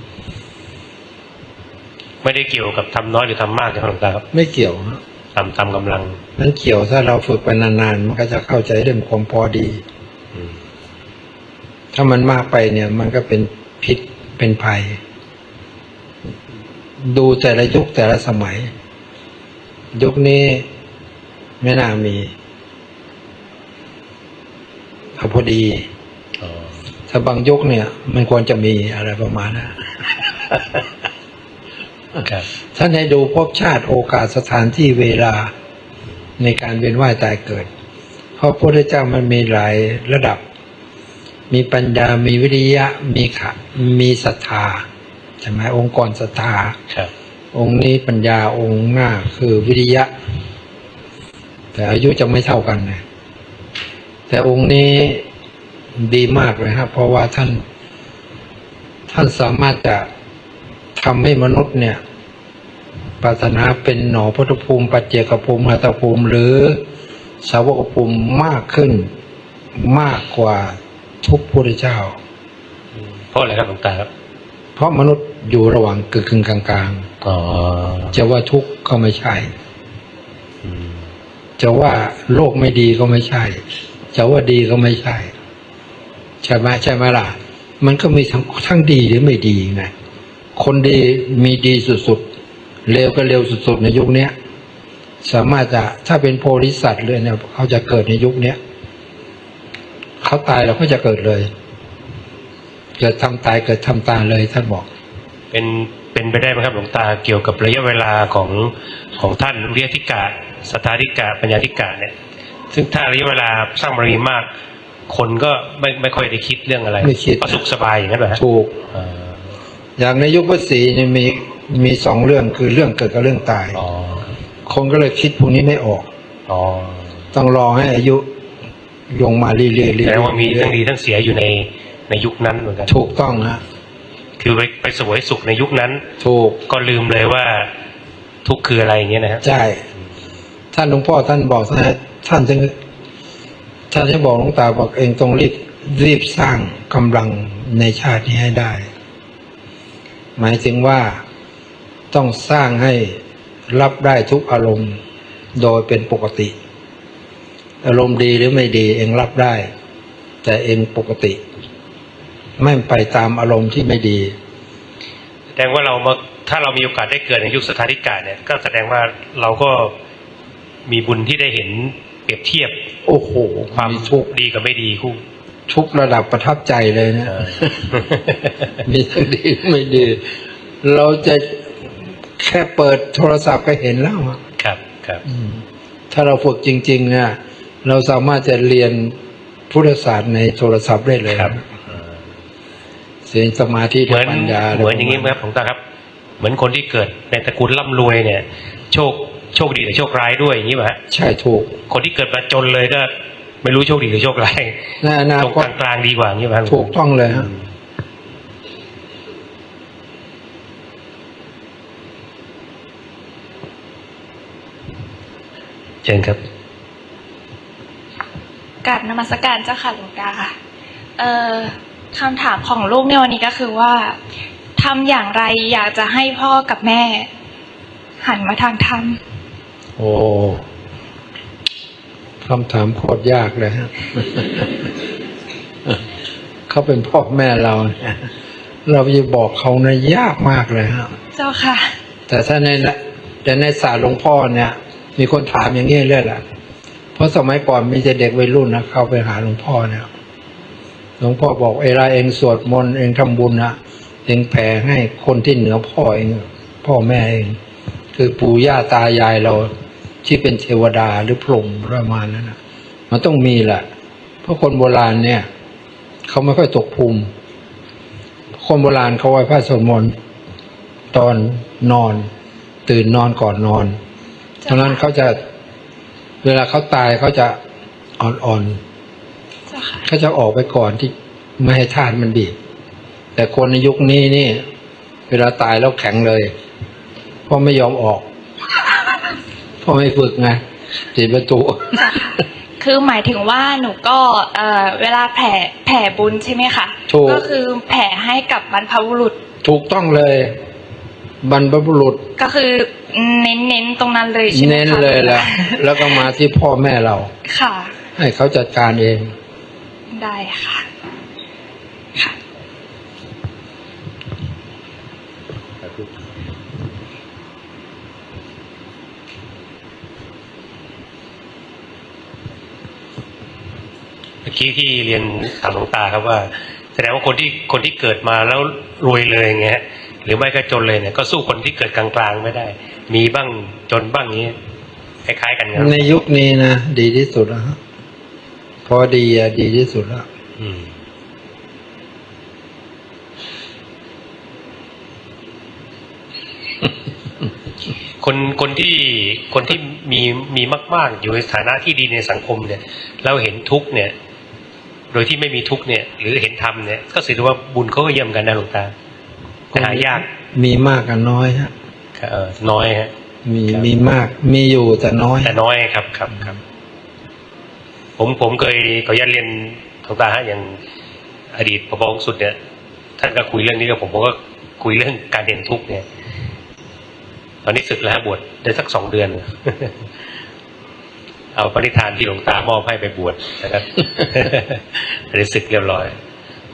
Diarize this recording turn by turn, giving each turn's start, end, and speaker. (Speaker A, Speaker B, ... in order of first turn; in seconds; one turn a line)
Speaker A: 2.2-4.2
Speaker B: 4.3-5.0
Speaker A: 5.3-6.2
Speaker B: 6.4-9.8
Speaker B: 11.9-15.0
Speaker B: 17.0-18.7
Speaker B: 19.9-20.7
Speaker B: 21.6-22.3
Speaker B: 25.2-25.9
Speaker A: 26.4-26.8
Speaker B: 27.1-30.8
Speaker B: 32.7-35.5
Speaker B: 36.4-37.7
Speaker B: 38.4-40.4
Speaker B: 41.5-44.9
Speaker B: 45.4-46.8
Speaker B: 47.5-50.1
Speaker B: 51.7-53.0
Speaker B: 54.3-55.2
Speaker B: 56.0-57.6
Speaker B: 59.1-60.1
Speaker B: 61.0-62.0
Speaker B: 63.2-66.8
Speaker B: 67.4-69.1
Speaker B: 69.8-72.2
Speaker A: 73.0-74.1
Speaker B: 74.8-77.1
Speaker A: 77.2-78.2
Speaker B: 78.1-79.5
Speaker A: 80.6-81.1
Speaker B: 81.6-85.3
Speaker B: 86.4-89.9
Speaker B: 90.5-92.2
Speaker B: 92.9-94.3
Speaker B: 95.2-98.6
Speaker B: 100.2-101.5
Speaker B: 103.0-104.9
Speaker A: 105.5-112.1
Speaker A: 112.7-114.5
Speaker A: 115.1-119.5
Speaker B: 117.0-117.6
Speaker B: 118.4-118.8
Speaker B: 120.0-123.8
Speaker A: 123.7-124.3
Speaker B: 124.7-126.1
Speaker A: 126.5-127.2
Speaker B: 127.3-128.2
Speaker B: 129.1-130.8
Speaker A: 130.0-132.9
Speaker B: 132.9-133.6
Speaker A: 134.4-136.1
Speaker B: 136.2-136.6
Speaker A: 136.7-137.7
Speaker A: 138.4-139.4
Speaker B: 139.4-139.8
Speaker B: 140.7-142.8
Speaker B: 143.9-148.9
Speaker B: 150.4-151.2
Speaker B: 152.1-155.0
Speaker B: 155.5-156.5
Speaker B: 157.8-159.7
Speaker B: 160.4-161.4
Speaker B: 162.6-164.4
Speaker A: 165.6-169.9
Speaker A: 170.9-172.8
Speaker B: 173.1-174.3
Speaker A: 173.7-175.2
Speaker B: 175.7-178.0
Speaker A: 177.3-178.7
Speaker B: 178.8-181.7
Speaker B: 182.4-184.4
Speaker A: 184.6-185.2
Speaker B: 185.2-189.2
Speaker B: 189.7-191.6
Speaker A: 191.3-192.0
Speaker B: 193.2-195.4
Speaker A: 194.1-195.8
Speaker A: 196.4-201.0
Speaker B: 201.1-201.8
Speaker A: 201.9-207.6
Speaker B: 205.0-205.7
Speaker B: 206.7-207.5
Speaker A: 216.0-216.4
Speaker C: 218.8-220.5
Speaker C: 221.2-224.2
Speaker C: 224.8-227.3
Speaker C: 228.2-229.2
Speaker B: 230.0-230.6
Speaker B: 232.4-234.9
Speaker B: 236.7-238.3
Speaker B: 238.9-241.1
Speaker C: 241.3-241.9
Speaker B: 242.3-246.4
Speaker B: 247.1-250.1
Speaker B: 251.2-257.6
Speaker B: 258.1-259.7
Speaker B: 260.2-262.6
Speaker B: 263.1-263.9
Speaker B: 264.4-265.5
Speaker B: 266.3-267.3
Speaker B: 268.6-270.1
Speaker B: 271.1-272.3
Speaker B: 272.9-274.0
Speaker C: 274.6-274.9
Speaker B: 274.7-275.4
Speaker B: 276.4-277.6
Speaker B: 278.2-278.8
Speaker C: 279.7-280.1
Speaker B: 280.1-282.6
Speaker B: 283.4-284.6
Speaker B: 285.3-286.5
Speaker B: 287.5-288.3
Speaker B: 289.8-290.6
Speaker B: 291.1-292.2
Speaker C: 292.0-299.4
Speaker B: 297.1-297.5
Speaker B: 299.6-300.6
Speaker B: 301.4-302.3
Speaker C: 302.4-306.2
Speaker B: 304.5-307.3
Speaker C: 307.5-307.9
Speaker B: 308.1-309.3
Speaker C: 310.1-310.9
Speaker A: 324.4-334.6
Speaker A: 335.2-336.1
Speaker B: 335.7-337.8
Speaker B: 338.9-340.3
Speaker A: 340.6-340.9
Speaker A: 348.2-354.1
Speaker A: 355.1-358.9
Speaker B: 359.7-361.7
Speaker A: 359.7-360.2
Speaker A: 362.2-363.1
Speaker B: 363.4-365.6
Speaker A: 365.4-366.6
Speaker A: 368.2-370.8
Speaker A: 371.5-372.6
Speaker A: 373.2-376.1
Speaker A: 377.6-380.0
Speaker A: 381.6-386.1